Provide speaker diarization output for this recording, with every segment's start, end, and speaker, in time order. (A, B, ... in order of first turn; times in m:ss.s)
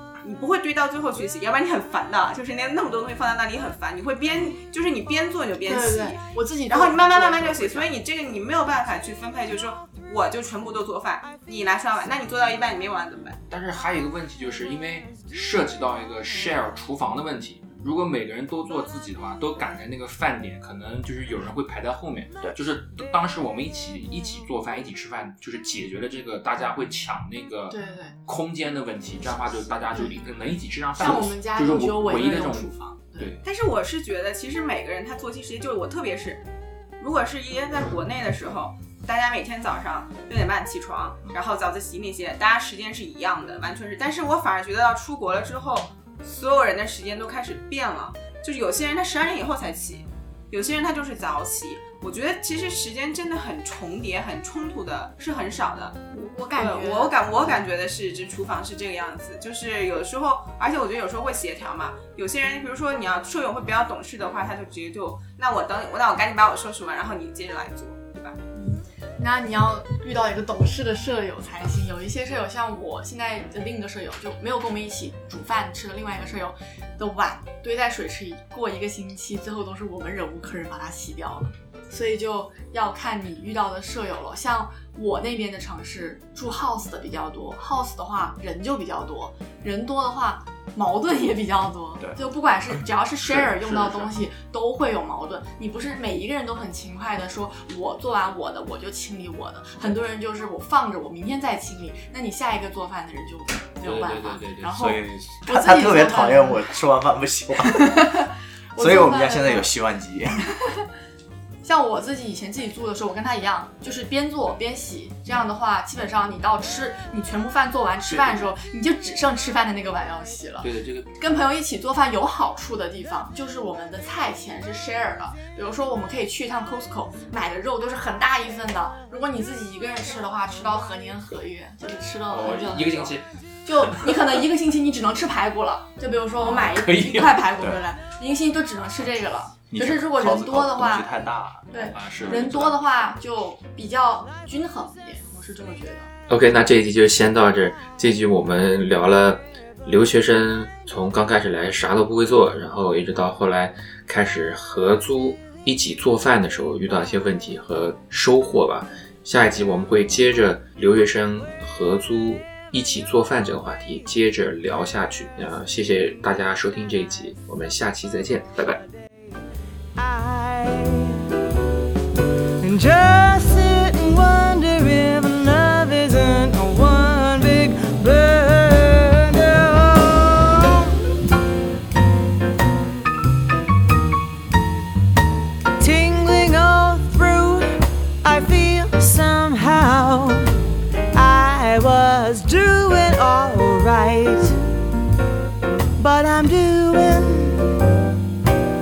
0:00.2-0:13.4 A
0:05.6-0:07.9 B
0:13.5-0:33.4 C
0:27.7-0:28.2 B
0:31.0-0:33.3 B
0:33.4-0:36.4 A
0:37.0-0:56.0 A
0:56.1-0:57.2 B
0:56.5-1:08.4 A
1:08.5-1:46.6 B
1:33.2-1:34.1 C
1:43.8-1:44.8 C
1:44.7-1:48.0 D
1:47.7-1:49.7 B
1:48.7-1:50.4 D
1:51.6-2:21.1 B
2:00.6-2:01.1 C
2:12.3-2:13.2 C
2:16.4-2:17.5 C
2:19.7-2:22.5 D
2:21.7-2:26.1 B
2:21.8-2:22.7 C
2:26.3-2:48.8 E
2:50.0-2:51.2 F
2:52.6-3:00.9 F
3:05.8-3:10.5 F
3:11.1-3:14.6 F
3:16.0-3:17.8 F